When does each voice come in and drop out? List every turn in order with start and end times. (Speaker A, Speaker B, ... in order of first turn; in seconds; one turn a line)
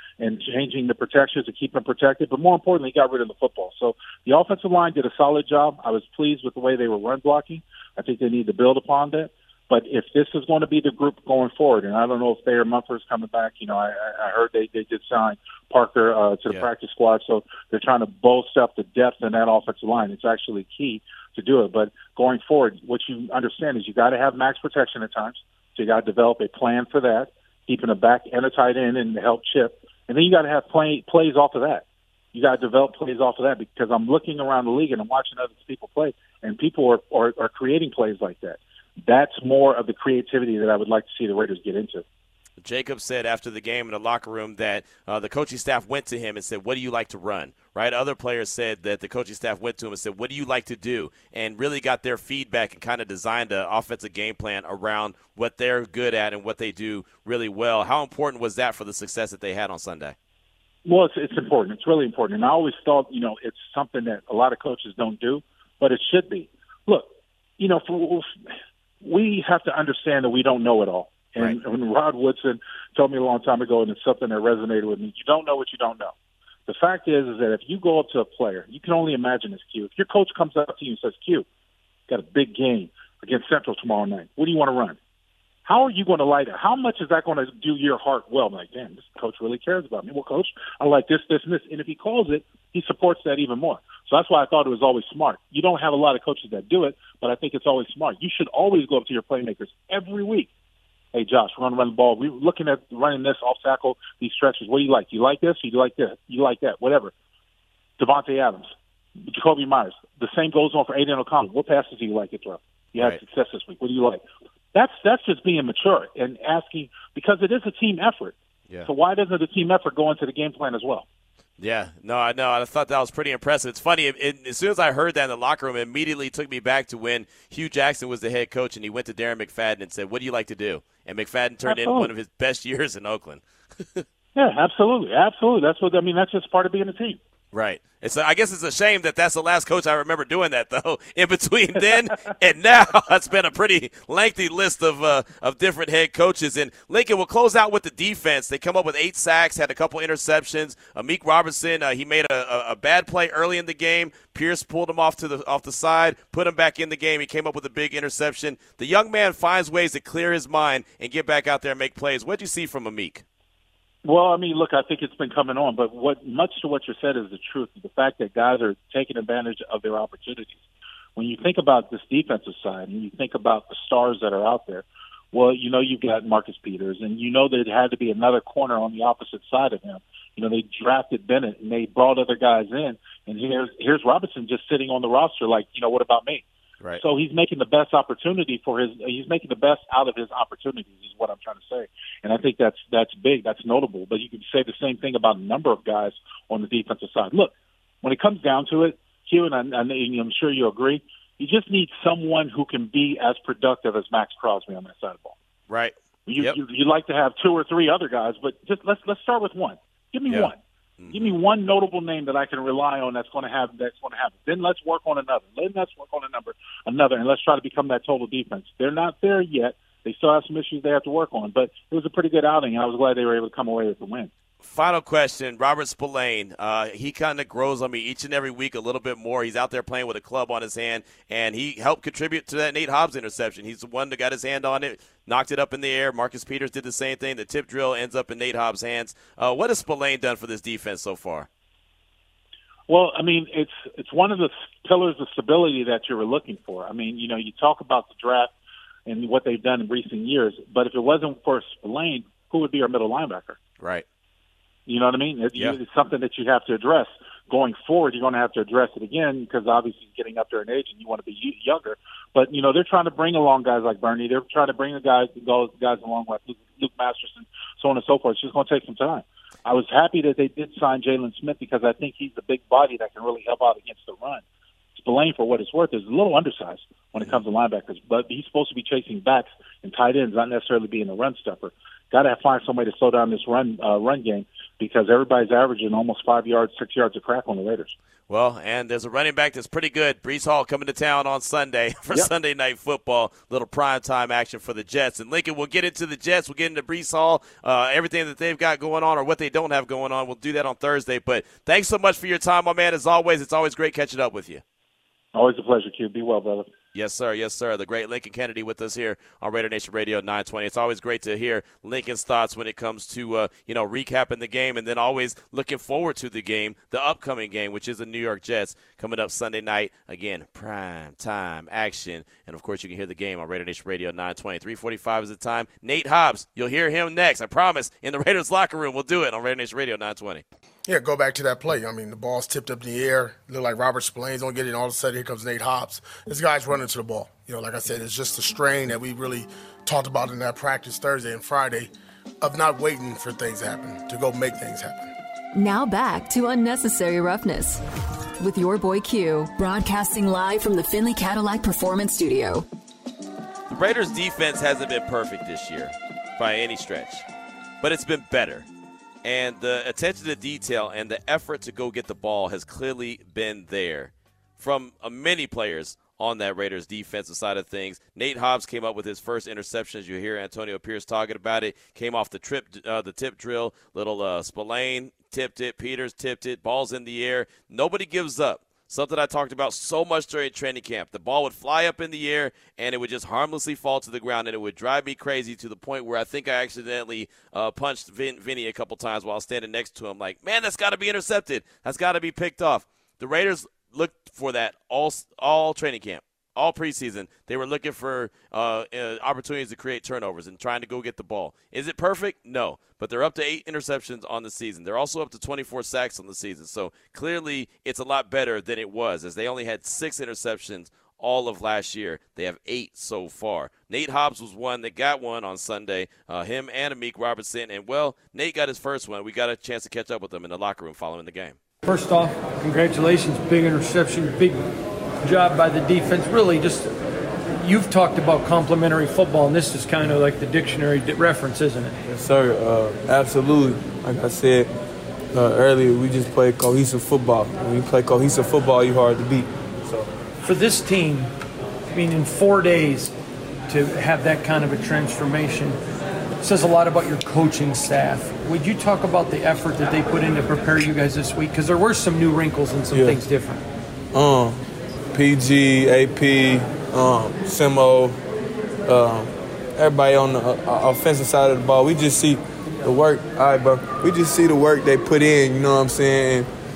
Speaker A: 0.2-42.0
Speaker B: 42.6-60.1
Speaker A: 60.9-68.3
Speaker A: 69.0-76.1
Speaker A: 76.7-81.5
Speaker A: 82.1-85.0
Speaker A: 85.7-100.5
Speaker A: 101.1-107.1
Speaker A: 108.0-108.7
Speaker A: 109.2-114.2
Speaker A: 114.7-121.1
Speaker B: 121.6-134.1
Speaker A: 131.7-132.1
Speaker A: 134.4-137.2
Speaker B: 137.5-163.2
Speaker A: 164.1-170.6
Speaker A: 171.2-186.4
Speaker A: 187.0-197.5
Speaker A: 198.0-205.4
Speaker B: 205.7-206.6
Speaker A: 206.3-210.6
Speaker B: 210.3-211.3
Speaker A: 211.1-224.3
Speaker B: 224.6-241.5
Speaker A: 242.9-248.5
Speaker A: 249.1-253.6
Speaker A: 254.9-274.4
Speaker A: 275.0-287.9
Speaker B: 288.3-304.6
Speaker A: 305.4-306.7
Speaker B: 306.9-330.4
Speaker C: 330.9-341.9
Speaker C: 342.4-345.1
Speaker D: 345.6-347.8
Speaker D: 348.4-352.6
Speaker B: 353.7-357.2
Speaker B: 357.8-358.7
Speaker B: 359.2-421.6
Speaker E: 421.8-424.6
Speaker E: 425.2-426.9
Speaker E: 427.6-432.0
Speaker F: 432.1-434.7
Speaker F: 435.3-440.1
Speaker E: 440.4-441.3
Speaker E: 441.9-443.1
Speaker E: 443.7-445.8
Speaker E: 446.4-453.6
Speaker F: 452.9-453.2
Speaker F: 454.1-454.6
Speaker F: 455.1-458.2
Speaker F: 458.9-466.5